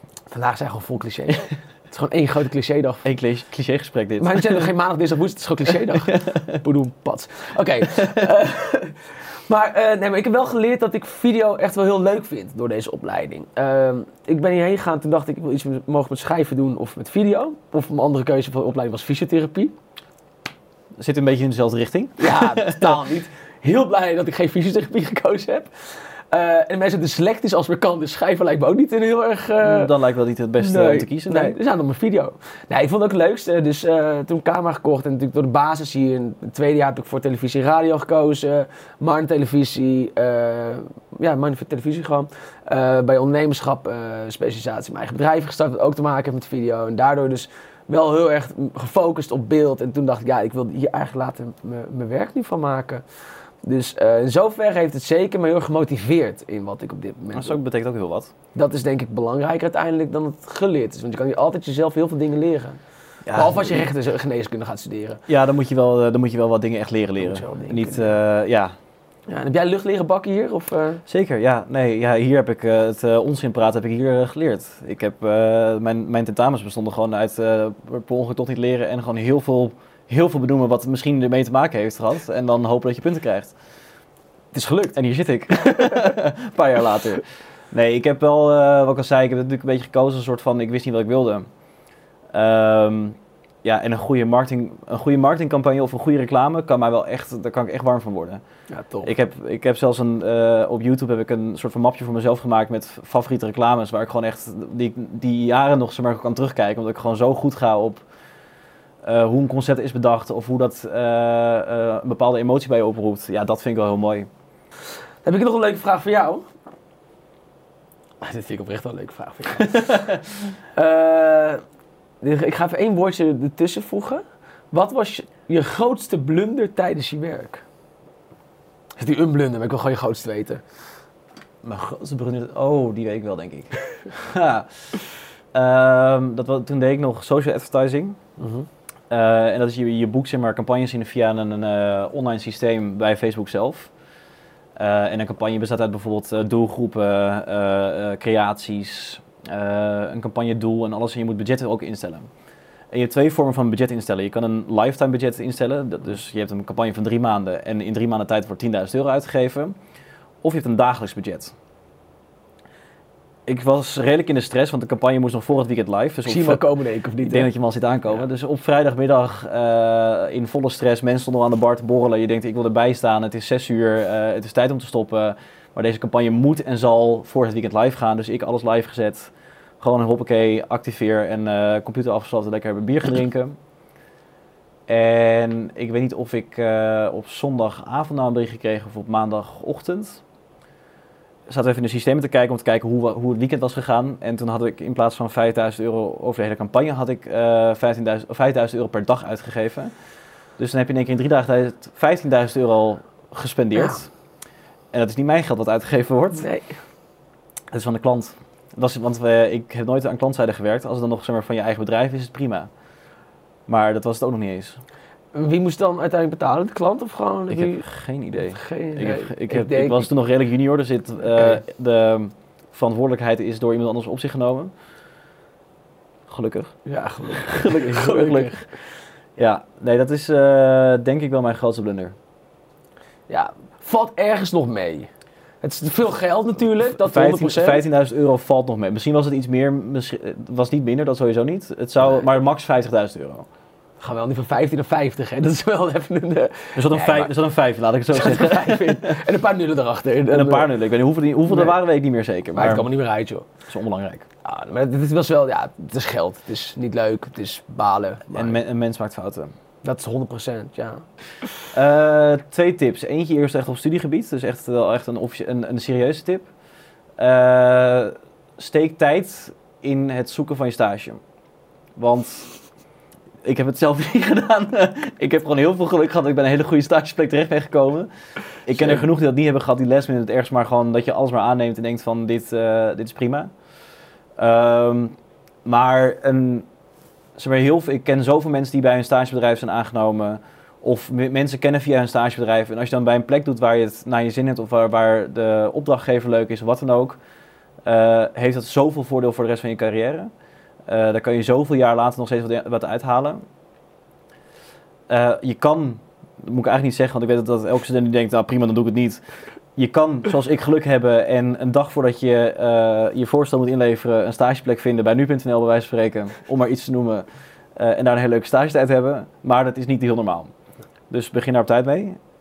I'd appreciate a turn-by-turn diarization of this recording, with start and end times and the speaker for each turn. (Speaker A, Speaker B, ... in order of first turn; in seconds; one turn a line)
Speaker A: 0.3-3.0
Speaker B: 3.0-4.7
Speaker A: 4.2-19.7
Speaker B: 6.0-6.5
Speaker B: 21.0-23.0
Speaker A: 22.2-25.7
Speaker A: 26.3-29.9
Speaker B: 29.6-31.6
Speaker A: 30.6-53.0
Speaker A: 53.6-57.6
Speaker B: 57.3-58.3
Speaker A: 58.5-62.8
Speaker B: 63.2-63.9
Speaker A: 63.3-65.2
Speaker B: 65.3-68.7
Speaker A: 67.2-68.1
Speaker A: 69.3-71.0
Speaker B: 71.0-83.5
Speaker A: 84.5-85.0
Speaker B: 84.9-91.5
Speaker B: 92.3-98.4
Speaker A: 98.7-99.1
Speaker B: 99.0-108.0
Speaker B: 109.0-114.3
Speaker A: 115.2-116.5
Speaker A: 118.2-120.1
Speaker A: 120.7-121.6
Speaker A: 122.2-127.6
Speaker A: 129.0-130.6
Speaker B: 131.6-134.7
Speaker B: 135.5-138.2
Speaker A: 138.4-138.7
Speaker B: 139.1-143.9
Speaker B: 144.8-152.3
Speaker B: 152.9-159.8
Speaker B: 160.4-161.5
Speaker B: 163.4-166.6
Speaker A: 166.2-167.5
Speaker B: 167.2-183.6
Speaker B: 184.9-190.2
Speaker B: 191.5-199.9
Speaker B: 200.6-204.1
Speaker B: 204.9-206.5
Speaker A: 206.4-206.7
Speaker B: 207.7-212.7
Speaker B: 213.7-214.8
Speaker A: 215.3-220.1
Speaker B: 217.5-224.7
Speaker B: 226.3-226.7
Speaker A: 226.8-228.6
Speaker B: 227.3-228.6
Speaker B: 229.4-232.1
Speaker A: 233.3-235.1
Speaker A: 235.6-237.8
Speaker B: 236.9-243.4
Speaker A: 244.0-247.3
Speaker B: 246.7-249.2
Speaker A: 248.1-250.7
Speaker B: 250.3-252.9
Speaker A: 251.5-251.8
Speaker A: 252.5-253.5
Speaker B: 253.7-254.2
Speaker A: 254.4-258.6
Speaker B: 258.3-259.5
Speaker A: 259.8-261.0
Speaker B: 261.7-266.5
Speaker B: 267.2-271.2
Speaker B: 271.9-272.5
Speaker B: 273.4-278.1
Speaker B: 278.6-283.5
Speaker A: 278.8-279.0
Speaker B: 284.4-286.7
Speaker B: 287.4-297.2
Speaker B: 297.8-300.3
Speaker B: 300.9-303.4
Speaker B: 305.1-309.2
Speaker B: 309.8-320.5
Speaker B: 321.1-322.2